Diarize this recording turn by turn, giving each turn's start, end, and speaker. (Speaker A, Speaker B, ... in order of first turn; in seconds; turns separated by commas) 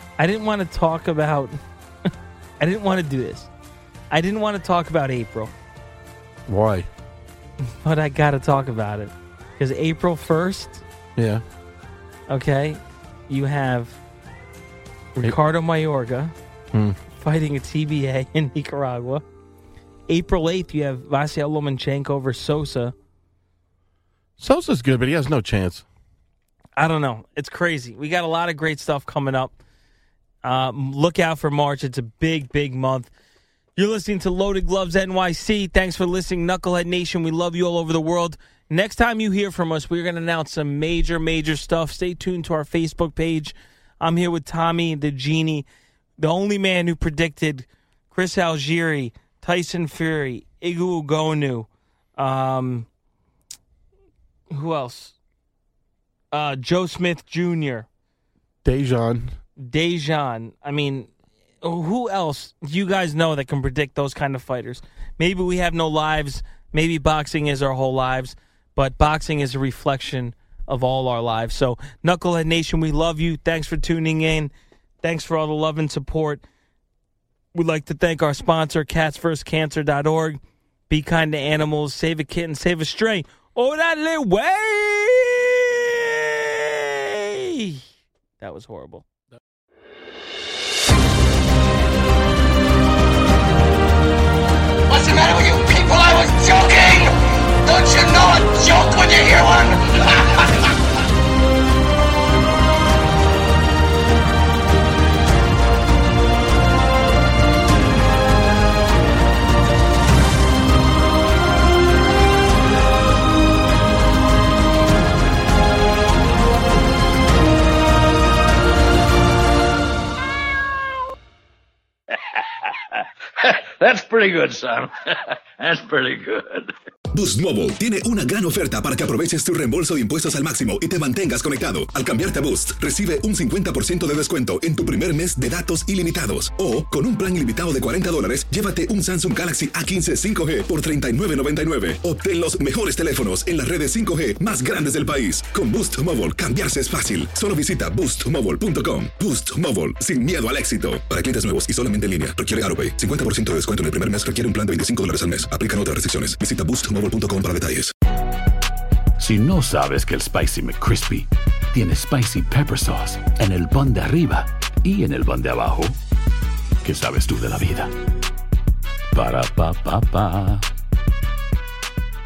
Speaker A: 0.2-3.5, Speaker A: 4.1-5.5, Speaker B: 6.5-6.9, Speaker A: 7.6-10.8, Speaker B: 11.2-11.4, Speaker A: 12.3-14.0, Speaker A: 15.1-16.3, Speaker B: 16.7-17.0, Speaker A: 17.1-19.2, Speaker A: 20.1-22.9, Speaker B: 24.4-25.9, Speaker A: 26.8-29.5, Speaker A: 30.4-33.1, Speaker A: 33.8-45.6, Speaker A: 46.2-51.7, Speaker A: 52.2-52.9, Speaker A: 54.5-55.1, Speaker A: 56.3-57.9, Speaker B: 58.6-59.4, Speaker A: 59.6-61.1, Speaker A: 61.6-74.5, Speaker A: 75.0-76.4, Speaker A: 77.5-87.8, Speaker A: 88.4-89.0, Speaker C: 94.9-100.7, Speaker D: 123.4-126.7, Speaker E: 127.1-157.9, Speaker F: 159.2-165.9, Speaker F: 166.8-167.9, Speaker F: 169.1-170.7